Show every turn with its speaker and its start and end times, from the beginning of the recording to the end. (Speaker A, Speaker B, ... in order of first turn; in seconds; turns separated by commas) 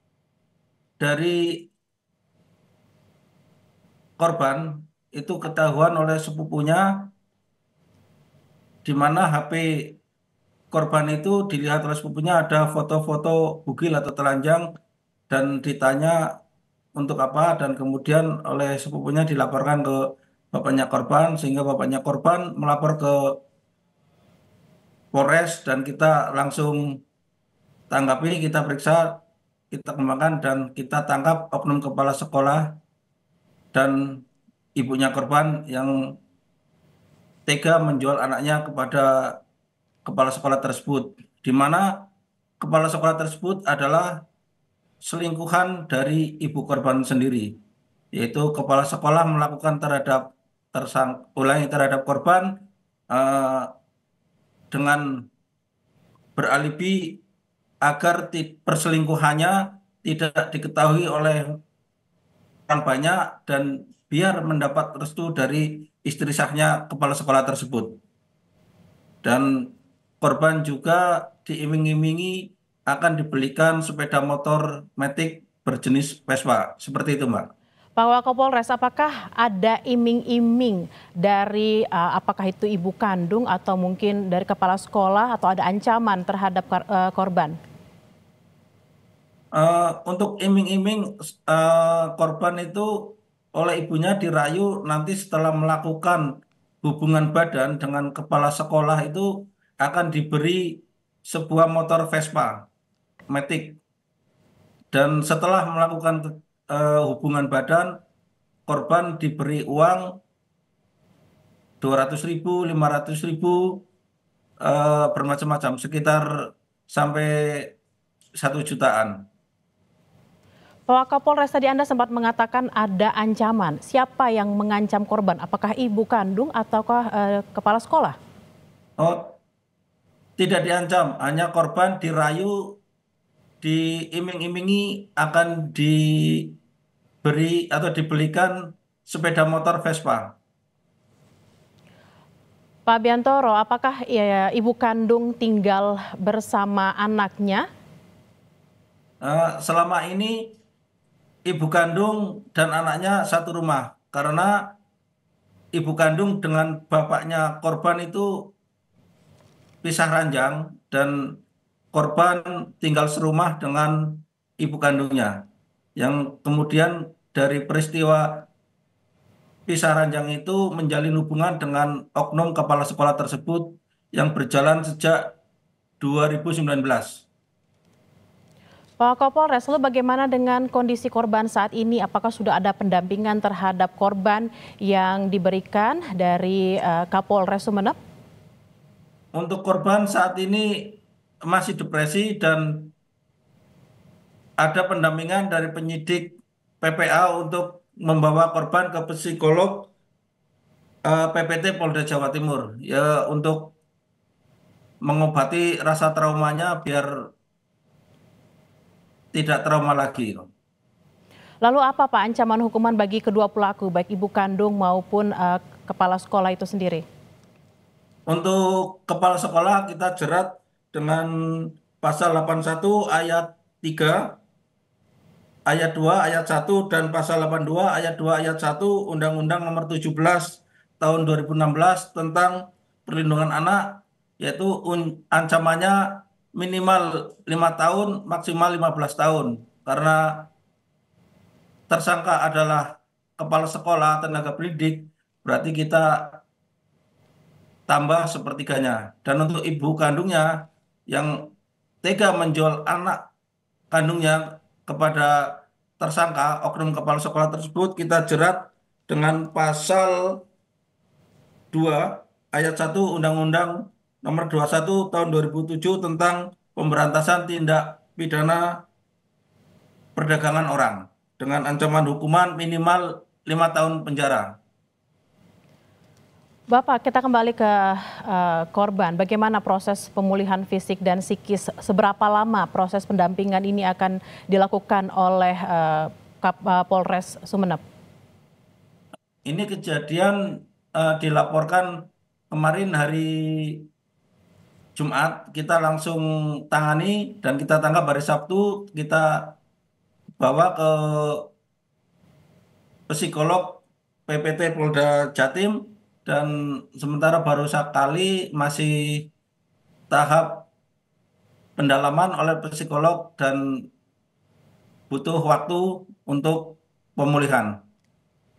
Speaker A: 1.0-1.7, Speaker A: 4.2-7.1, Speaker A: 8.8-10.0, Speaker A: 10.7-14.7, Speaker A: 15.3-16.2, Speaker A: 17.0-23.4, Speaker A: 25.1-27.0, Speaker A: 27.9-32.8, Speaker A: 33.7-34.2, Speaker A: 34.8-36.1, Speaker A: 37.5-39.4, Speaker A: 40.0-42.0, Speaker A: 42.6-44.2, Speaker A: 45.0-47.6, Speaker A: 48.1-53.7, Speaker A: 54.7-55.2, Speaker A: 56.4-57.2, Speaker A: 57.8-61.6, Speaker A: 62.7-68.0, Speaker A: 69.2-77.5, Speaker B: 78.0-87.6, Speaker A: 89.5-96.3, Speaker A: 96.8-102.7, Speaker A: 103.3-103.8, Speaker A: 104.9-108.0, Speaker A: 108.7-110.2, Speaker A: 111.8-113.8, Speaker A: 114.6-117.8, Speaker A: 118.4-119.2, Speaker B: 120.9-128.2, Speaker A: 129.0-129.3, Speaker A: 130.4-132.8, Speaker A: 133.6-136.6, Speaker A: 137.2-140.3, Speaker B: 142.8-147.7, Speaker A: 149.2-150.5, Speaker A: 151.5-154.8, Speaker A: 155.7-158.5, Speaker A: 159.8-161.3, Speaker A: 161.9-165.4, Speaker A: 166.0-168.5, Speaker A: 169.7-175.3, Speaker A: 176.0-177.2, Speaker B: 179.0-188.0, Speaker A: 189.3-192.9, Speaker A: 194.6-199.9, Speaker A: 201.1-203.7, Speaker A: 205.0-207.1, Speaker A: 209.3-210.5, Speaker B: 211.6-217.0, Speaker A: 218.3-224.4, Speaker A: 225.7-240.5, Speaker A: 241.9-246.4, Speaker A: 247.9-251.5, Speaker A: 252.0-253.2, Speaker A: 253.9-260.4, Speaker A: 261.7-268.8, Speaker A: 270.1-274.6, Speaker B: 276.7-287.8, Speaker A: 289.4-293.9, Speaker A: 294.9-299.6, Speaker A: 300.4-301.5, Speaker A: 303.1-309.3, Speaker A: 310.1-310.7, Speaker A: 311.8-313.6, Speaker A: 315.1-317.8